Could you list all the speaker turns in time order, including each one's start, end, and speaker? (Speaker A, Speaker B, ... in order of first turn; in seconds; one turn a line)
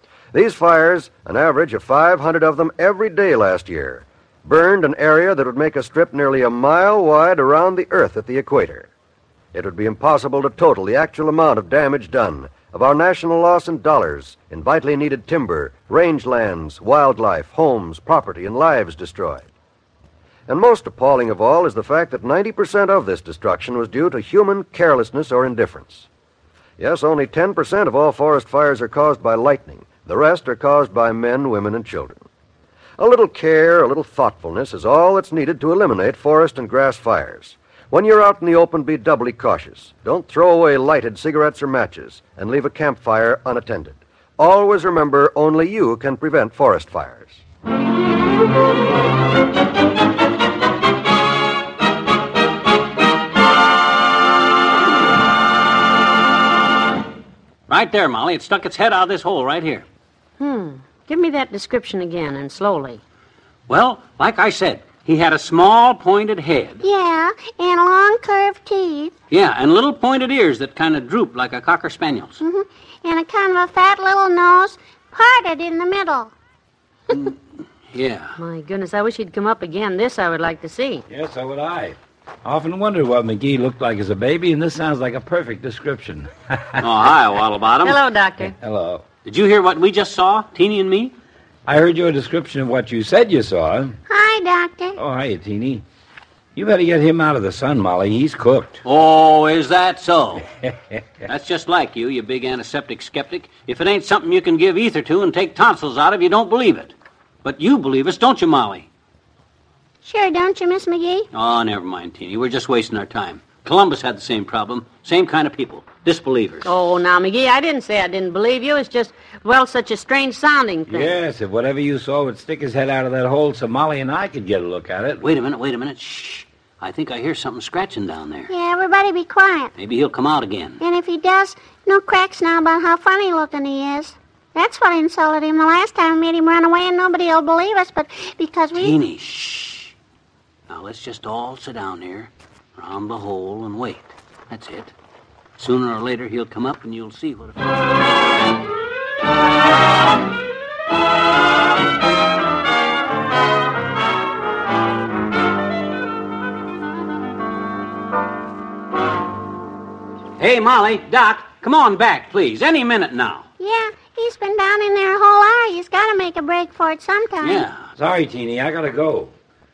Speaker A: 0.3-8.9
Speaker A: 9.5-19.5
Speaker A: 20.5-26.1
Speaker A: 26.8-32.2
Speaker A: 33.0-47.4
Speaker B: 57.7-59.8
Speaker C: 60.4-63.0
Speaker B: 63.7-66.8
Speaker D: 66.8-69.1
Speaker B: 69.3-72.4
Speaker D: 72.4-76.3
Speaker B: 77.9-78.3
Speaker C: 78.4-81.0
Speaker E: 81.1-86.8
Speaker B: 86.8-88.0
Speaker C: 87.8-88.5
Speaker E: 88.6-89.0
Speaker B: 89.2-91.2
Speaker E: 91.7-93.9
Speaker D: 94.1-95.0
Speaker E: 95.0-95.8
Speaker E: 96.5-98.8
Speaker B: 98.8-100.4
Speaker B: 101.3-108.9
Speaker D: 110.0-111.3
Speaker B: 111.3-116.7
Speaker C: 116.6-121.2
Speaker E: 120.9-125.2
Speaker B: 125.2-128.5
Speaker D: 128.5-129.7
Speaker B: 129.8-130.8
Speaker D: 130.8-139.0
Speaker B: 138.7-139.9
Speaker B: 140.7-144.9
Speaker B: 145.6-147.6
Speaker B: 160.4-163.4
Speaker D: 163.6-167.6
Speaker B: 167.4-167.8
Speaker E: 168.0-169.3